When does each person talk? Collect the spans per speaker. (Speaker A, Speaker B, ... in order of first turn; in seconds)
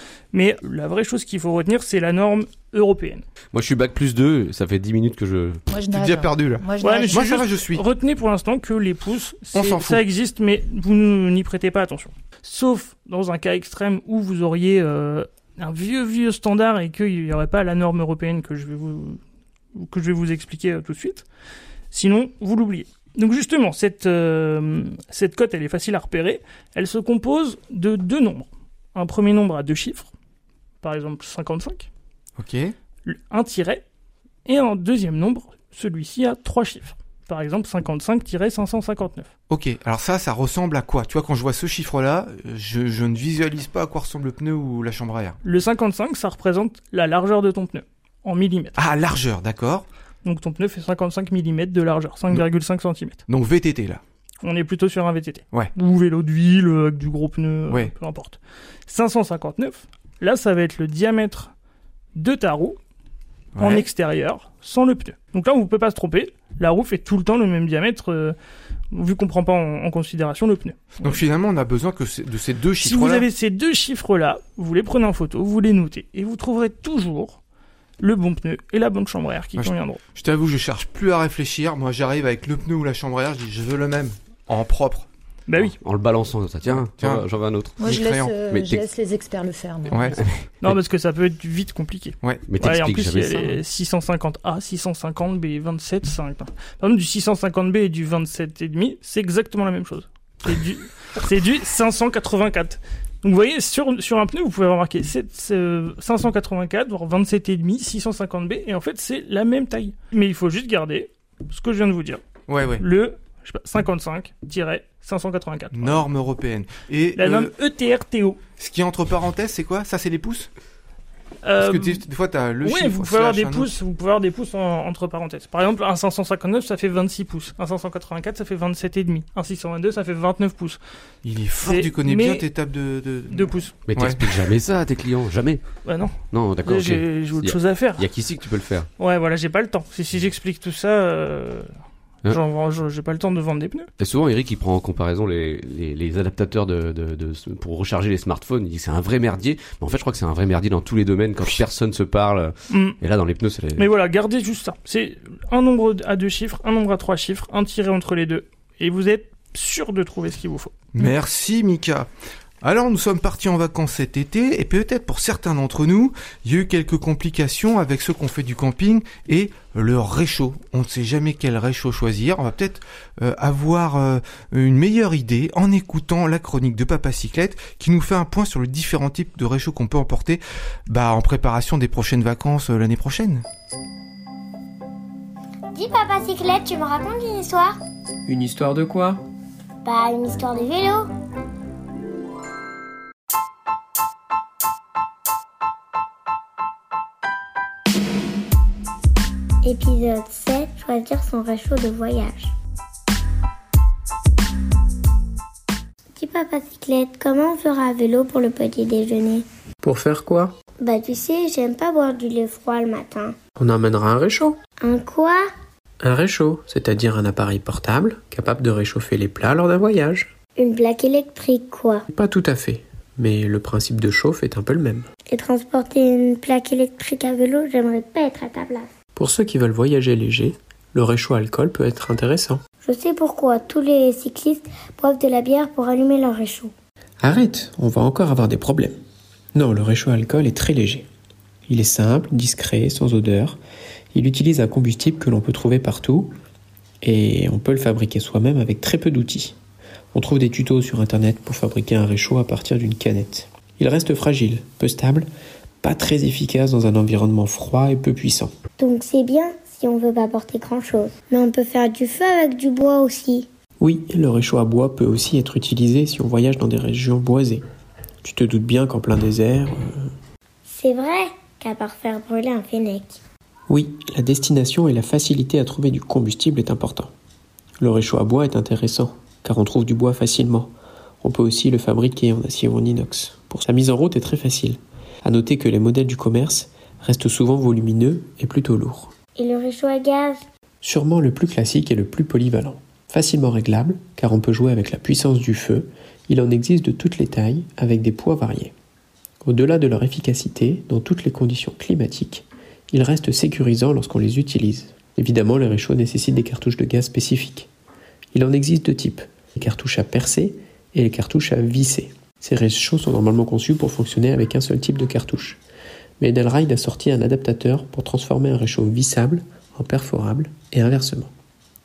Speaker A: 0.3-3.2, 6.8-19.2, 19.7-21.2, 21.9-30.1, 30.8-31.9, 33.0-33.8, 34.5-39.3, 45.4-48.7, 50.2-53.2, 54.4-61.5, 62.1-62.8, 63.6-68.3, 68.9-71.2, 72.8-77.4, 78.0-80.0, 85.5-85.7, 90.6-112.2, 112.8-116.0, 117.2-118.4, 121.4-122.0, 122.6-130.8, 131.6-132.5, 133.3-133.7, 135.8-138.0, 139.0-141.7, 142.3-143.9, 152.7-153.0, 153.8-160.9
Speaker B: 3.5-5.6, 85.8-87.9, 88.5-88.8, 90.1-90.8, 92.5-93.6, 133.9-138.9, 144.0-153.9
Speaker C: 5.7-7.5, 87.8-90.2
Speaker D: 5.9-7.8, 9.5-10.0, 32.4-32.7, 39.5-45.4, 48.8-49.9, 53.3-54.0, 63.5-63.9, 71.0-73.2, 79.6-85.1, 86.7-87.2, 87.8-88.3, 89.9-90.2, 112.5-112.8, 115.7-117.5, 118.6-120.5, 121.6-123.7, 131.2-134.2, 160.9-162.1, 162.6-183.4
Speaker E: 185.7-187.8, 189.8-191.1, 199.6-202.5, 206.2-209.4, 210.8-213.3, 214.8-215.5, 220.6-222.1, 225.3-228.9, 232.8-236.7, 258.8-263.5, 270.7-273.2, 289.4-290.4
Speaker F: 188.2-189.2, 209.8-210.5, 213.6-214.6, 216.0-220.3, 222.1-225.1, 229.2-232.6, 237.2-239.0, 239.5-241.1, 241.7-243.6, 244.1-246.3, 247.0-249.6, 250.1-255.3, 255.8-258.5, 263.8-267.6, 268.2-270.1, 273.7-277.1, 277.8-289.1, 290.8-298.7, 299.4-307.7, 308.3-315.6, 316.2-321.3